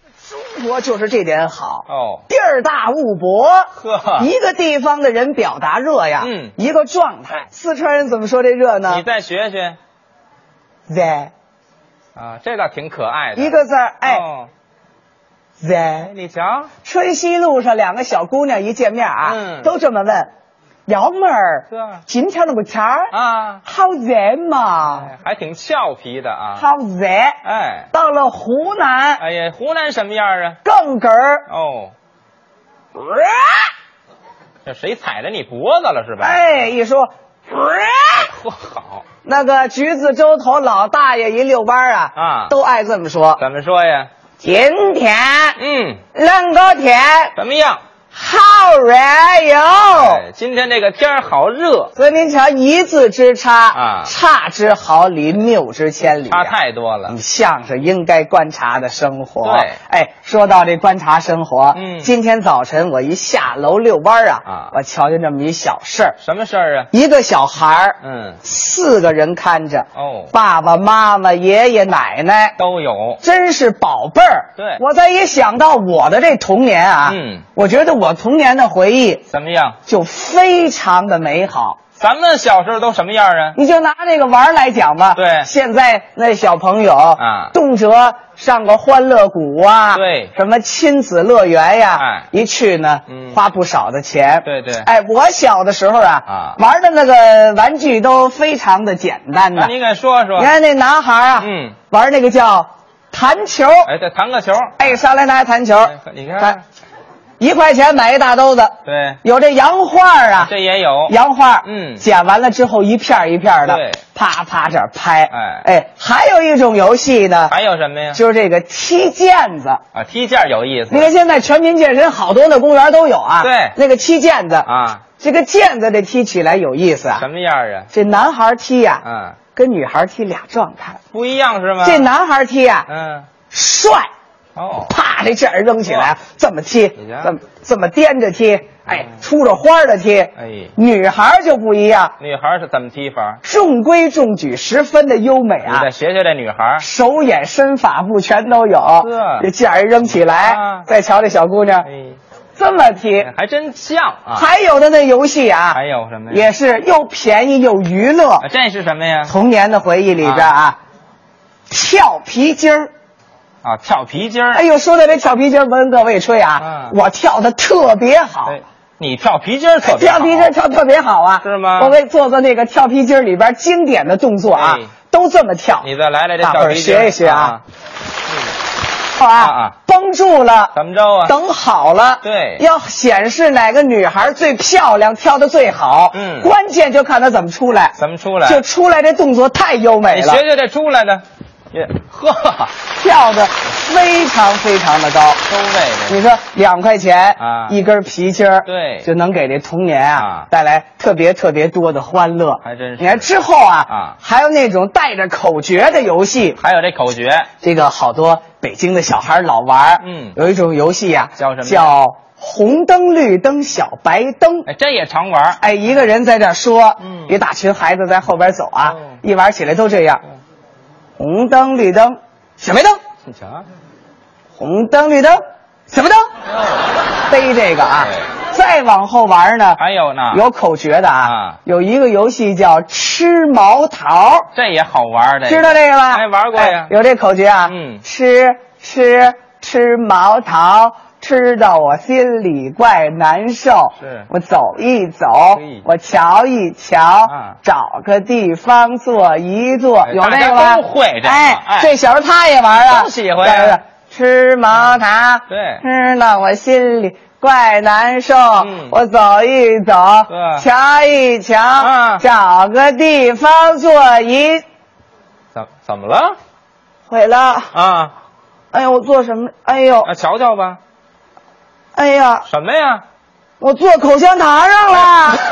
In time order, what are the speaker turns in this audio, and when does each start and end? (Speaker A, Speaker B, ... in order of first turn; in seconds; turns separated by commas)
Speaker A: 0.2-9.0, Speaker B: 1.9-2.2, Speaker B: 3.7-4.3, Speaker B: 6.2-6.5, Speaker B: 8.8-9.8, Speaker A: 10.9-11.3, Speaker B: 12.2-14.5, Speaker A: 13.3-14.2, Speaker A: 15.6-16.1, Speaker B: 16.1-16.7, Speaker A: 16.8-20.3, Speaker B: 19.2-19.7, Speaker A: 20.9-23.1, Speaker B: 21.7-22.0, Speaker B: 23.1-23.6, Speaker A: 23.6-25.1, Speaker B: 24.9-26.7, Speaker A: 26.6-27.4, Speaker B: 27.4-27.9, Speaker A: 27.9-29.2, Speaker B: 29.2-30.6, Speaker A: 30.6-31.4, Speaker B: 31.5-31.9, Speaker A: 32.9-33.7, Speaker B: 34.6-36.4, Speaker A: 36.2-38.2, Speaker B: 38.1-39.0, Speaker A: 39.2-43.4, Speaker B: 42.1-42.5, Speaker B: 43.4-44.1, Speaker A: 44.4-45.6, Speaker B: 45.6-46.0, Speaker A: 46.1-47.3, Speaker B: 47.4-47.8, Speaker A: 48.1-50.2, Speaker B: 49.8-51.9, Speaker A: 52.0-56.5, Speaker B: 53.7-54.1, Speaker B: 56.3-57.1, Speaker A: 57.1-66.2, Speaker B: 59.4-59.8, Speaker B: 61.7-62.1, Speaker B: 64.5-64.7, Speaker B: 66.2-66.9, Speaker A: 66.9-72.6, Speaker B: 68.0-68.4, Speaker B: 69.9-70.3, Speaker B: 72.6-73.2, Speaker A: 73.2-79.2, Speaker B: 77.0-77.5, Speaker B: 79.3-79.8, Speaker A: 79.8-81.8, Speaker B: 82.0-83.6, Speaker A: 83.5-99.7, Speaker B: 85.1-85.5, Speaker B: 87.2-87.5, Speaker B: 89.9-90.3, Speaker B: 92.0-92.3, Speaker B: 93.1-93.4, Speaker B: 94.4-94.9, Speaker B: 96.3-96.6, Speaker B: 99.5-100.5, Speaker A: 100.3-103.9, Speaker B: 101.4-101.8, Speaker B: 103.8-105.0, Speaker A: 104.8-106.6, Speaker B: 105.8-106.6, Speaker A: 107.4-110.5, Speaker B: 108.8-109.2, Speaker B: 110.3-112.0, Speaker A: 111.1-117.5, Speaker B: 113.6-114.0, Speaker B: 115.3-115.7, Speaker B: 117.5-118.2, Speaker A: 118.1-119.8, Speaker B: 119.9-121.1, Speaker A: 120.9-124.7, Speaker B: 123.4-123.8, Speaker B: 124.6-125.0, Speaker A: 125.2-127.2, Speaker B: 127.1-127.9, Speaker A: 127.9-129.0, Speaker B: 129.0-129.4, Speaker A: 129.5-131.0, Speaker B: 131.1-132.1, Speaker A: 131.8-132.9, Speaker B: 132.9-133.3, Speaker A: 133.5-134.1, Speaker B: 134.6-134.9, Speaker A: 134.8-142.1, Speaker B: 135.8-136.1, Speaker B: 137.0-137.3, Speaker B: 140.4-140.7, Speaker B: 142.2-143.4, Speaker A: 143.4-145.9, Speaker B: 145.6-146.8, Speaker A: 146.8-151.9, Speaker B: 149.0-149.5, Speaker B: 150.0-150.9, Speaker B: 151.8-152.2, Speaker A: 152.6-153.3, Speaker B: 153.2-154.5, Speaker A: 154.3-155.8, Speaker B: 155.7-156.5, Speaker A: 156.3-158.5, Speaker B: 158.4-159.3, Speaker A: 159.2-160.8, Speaker B: 160.2-160.5, Speaker A: 161.7-162.9, Speaker B: 163.6-164.6, Speaker A: 164.5-168.6, Speaker B: 166.6-166.9, Speaker B: 168.4-170.5, Speaker A: 169.8-175.9, Speaker B: 171.4-172.0, Speaker B: 174.5-174.9, Speaker B: 175.8-177.6, Speaker A: 176.4-177.6, Speaker A: 179.1-190.4, Speaker B: 179.4-179.8, Speaker B: 180.7-181.3, Speaker B: 182.2-182.6, Speaker B: 186.1-186.5, Speaker B: 187.9-188.6, Speaker B: 190.1-192.7, Speaker A: 193.0-195.4, Speaker B: 195.5-196.2, Speaker A: 196.1-206.6, Speaker B: 197.4-197.8, Speaker B: 198.6-199.1, Speaker B: 200.2-200.5, Speaker B: 202.6-203.3, Speaker B: 203.9-204.2, Speaker B: 206.6-207.5, Speaker A: 207.6-214.7, Speaker B: 210.0-210.3, Speaker B: 211.4-211.9, Speaker B: 214.7-215.6, Speaker A: 215.6-220.2, Speaker B: 217.0-217.4, Speaker B: 218.8-219.2, Speaker A: 221.2-223.0, Speaker B: 223.2-223.7, Speaker A: 224.6-226.2, Speaker B: 226.5-226.8, Speaker A: 227.3-234.5, Speaker B: 228.0-228.3, Speaker B: 229.8-230.4, Speaker B: 231.2-231.6, Speaker B: 234.5-236.9, Speaker A: 235.5-264.6, Speaker B: 237.7-238.0, Speaker B: 244.0-244.3, Speaker B: 245.6-245.8, Speaker B: 247.3-247.6, Speaker B: 250.0-251.9, Speaker B: 252.7-253.8, Speaker B: 254.7-255.8, Speaker B: 258.6-259.0, Speaker B: 260.3-260.7, Speaker B: 261.8-262.2, Speaker B: 265.5-266.4, Speaker A: 267.1-267.7, Speaker B: 267.7-268.1, Speaker A: 268.7-270.1, Speaker B: 270.0-270.8, Speaker A: 271.9-272.4, Speaker B: 272.4-273.0, Speaker A: 273.6-275.4